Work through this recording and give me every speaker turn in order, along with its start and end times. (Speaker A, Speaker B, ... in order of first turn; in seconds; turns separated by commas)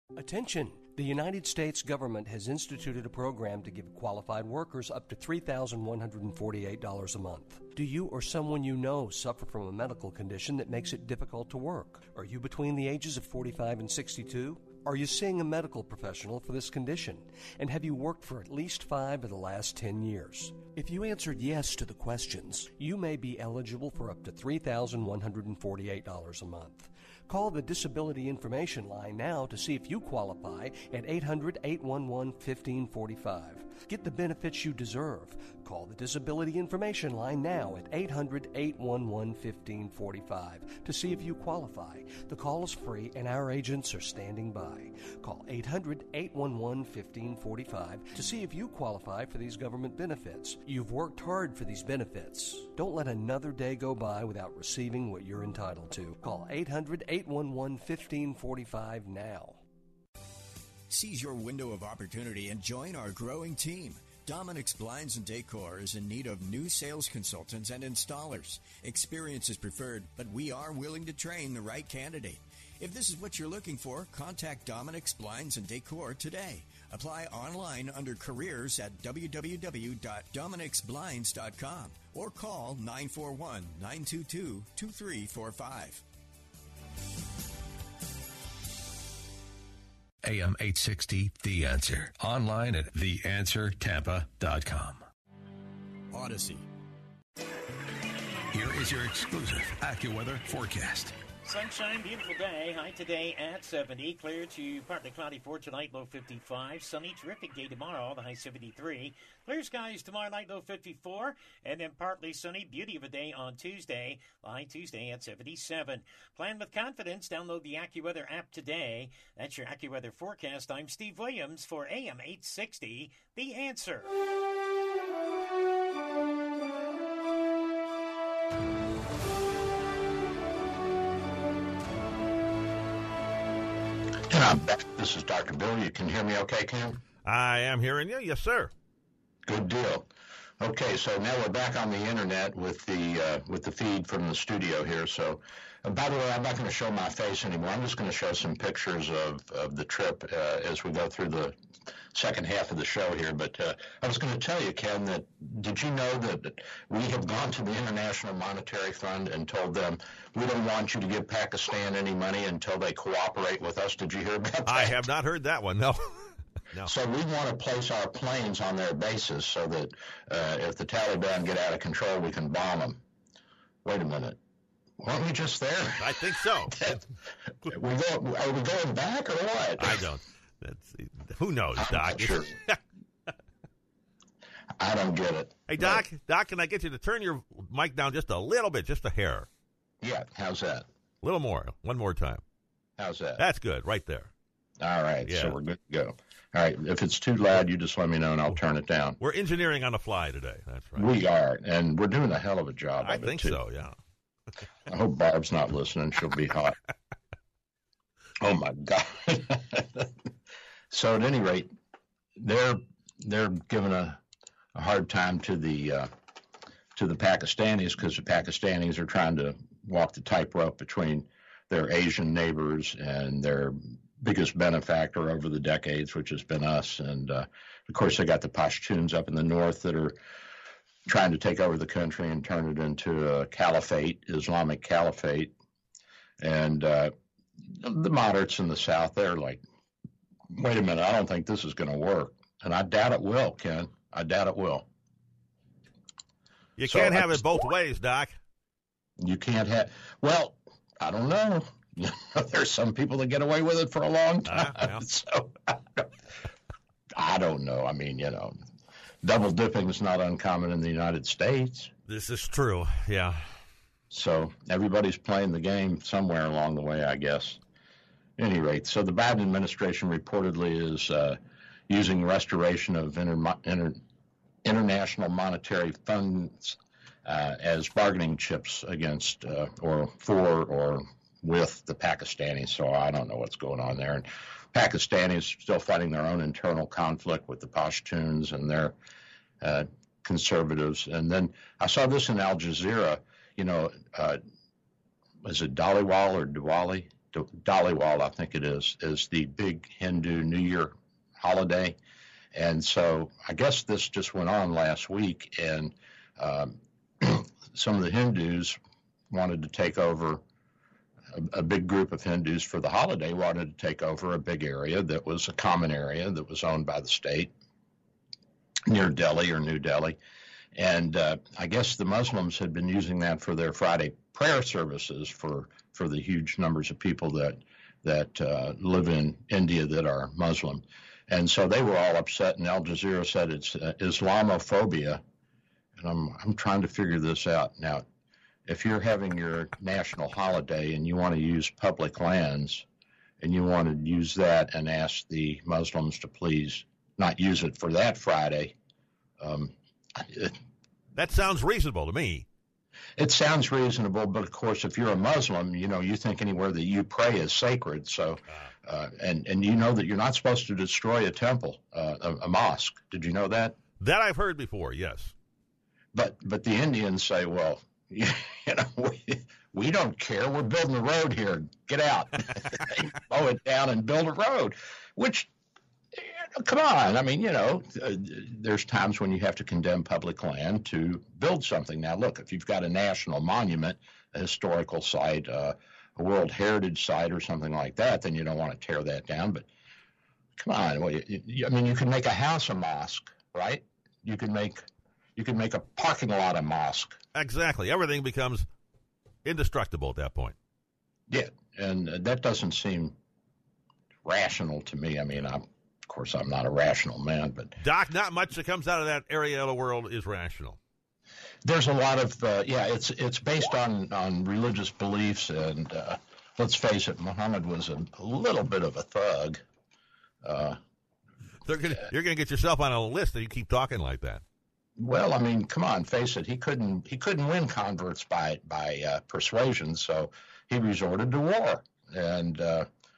Speaker A: 0.2-59.6, Speaker B: 60.9-86.0, Speaker C: 90.2-95.1, Speaker B: 96.1-96.6, Speaker C: 98.5-101.2, Speaker D: 101.4-124.1, Speaker E: 134.3-137.0, Speaker F: 137.2-138.7, Speaker E: 139.4-140.1, Speaker E: 140.6-151.6, Speaker E: 152.1-165.0, Speaker F: 164.7-166.9, Speaker E: 166.8-173.0, Speaker E: 173.8-174.4, Speaker E: 175.0-176.2, Speaker F: 176.0-177.0, Speaker E: 176.7-177.0, Speaker E: 177.7-180.0, Speaker F: 179.8-182.8, Speaker E: 181.8-182.6, Speaker E: 184.8-186.0, Speaker F: 185.7-189.5, Speaker E: 190.0-190.8, Speaker F: 191.2-192.4, Speaker E: 193.0-193.4, Speaker F: 193.4-194.3, Speaker E: 194.8-199.2, Speaker F: 195.2-195.6, Speaker F: 199.2-201.1, Speaker E: 200.9-203.6, Speaker F: 203.0-203.9, Speaker E: 204.9-206.7, Speaker E: 208.4-210.1, Speaker E: 210.9-211.7, Speaker E: 212.4-214.2, Speaker E: 214.7-216.1, Speaker E: 216.9-230.2, Speaker E: 231.1-235.5, Speaker E: 236.4-237.1, Speaker E: 237.7-239.6, Speaker E: 240.5-244.9, Speaker F: 246.8-248.3, Speaker E: 246.9-247.7, Speaker E: 249.2-256.1, Speaker F: 254.5-255.0, Speaker E: 257.1-258.5, Speaker E: 259.2-261.9, Speaker F: 262.1-263.4, Speaker E: 264.1-267.6, Speaker E: 268.4-274.0, Speaker E: 274.6-288.9, Speaker E: 289.6-294.4, Speaker E: 295.4-302.0, Speaker E: 302.5-308.8, Speaker E: 309.3-310.4, Speaker E: 311.3-317.5, Speaker E: 318.9-320.2, Speaker E: 320.7-335.2, Speaker E: 336.0-338.0, Speaker E: 338.7-342.9, Speaker E: 343.4-348.7, Speaker E: 349.4-350.5, Speaker F: 351.1-352.4, Speaker E: 353.2-363.8, Speaker F: 364.0-365.3, Speaker E: 366.1-375.5, Speaker E: 376.1-389.7, Speaker E: 390.6-394.8, Speaker E: 395.4-397.2, Speaker F: 397.3-398.6, Speaker F: 399.4-400.5, Speaker E: 401.3-403.1, Speaker E: 404.2-407.8, Speaker F: 407.8-410.8, Speaker E: 411.6-419.6, Speaker E: 420.4-420.8, Speaker F: 421.6-424.4, Speaker E: 425.0-432.9